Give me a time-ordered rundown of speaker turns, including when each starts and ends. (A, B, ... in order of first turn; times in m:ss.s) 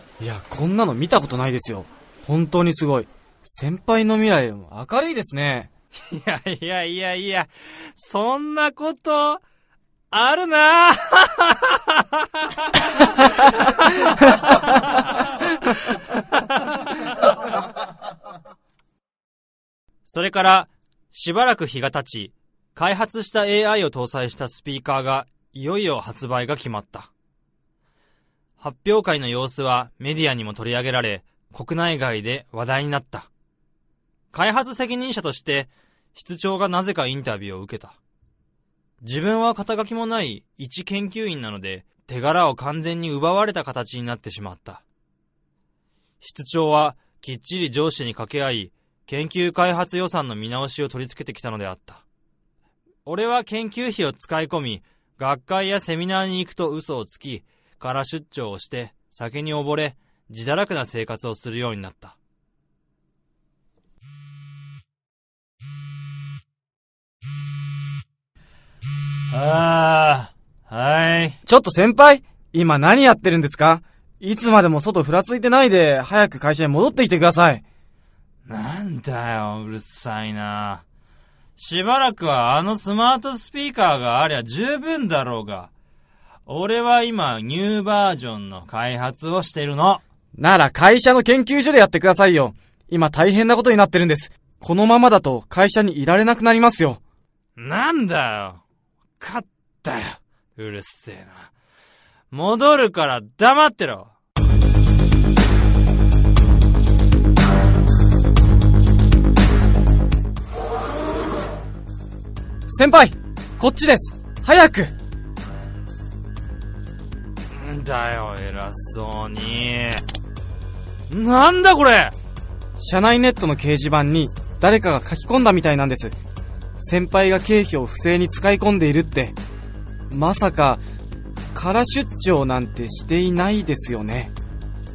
0:00.2-0:05.7 A
0:05.9-0:09.4 B
0:10.1-0:17.3 B
0:20.0-0:27.1 B
0:28.6-0:33.3 B
0:34.3-0:38.0 B
0:39.0-0:44.8 B
0:46.2-0:52.0 B
0:53.0-1:02.2 B
1:09.3-1:11.4 B
1:11.4-1:17.6 A
1:18.4-1:20.8 B
1:21.6-1:25.7 B
1:26.4-1:30.0 B
1:30.4-1:37.0 A
1:37.6-1:38.6 B
1:39.2-1:41.5 B
1:42.3-1:44.1 B
1:52.7-1:54.9 A
1:57.5-2:00.0 B
2:01.1-2:02.1 B
2:02.8-2:06.2 A
2:06.8-2:09.4 A
2:10.1-2:10.8 A
2:11.5-2:14.3 A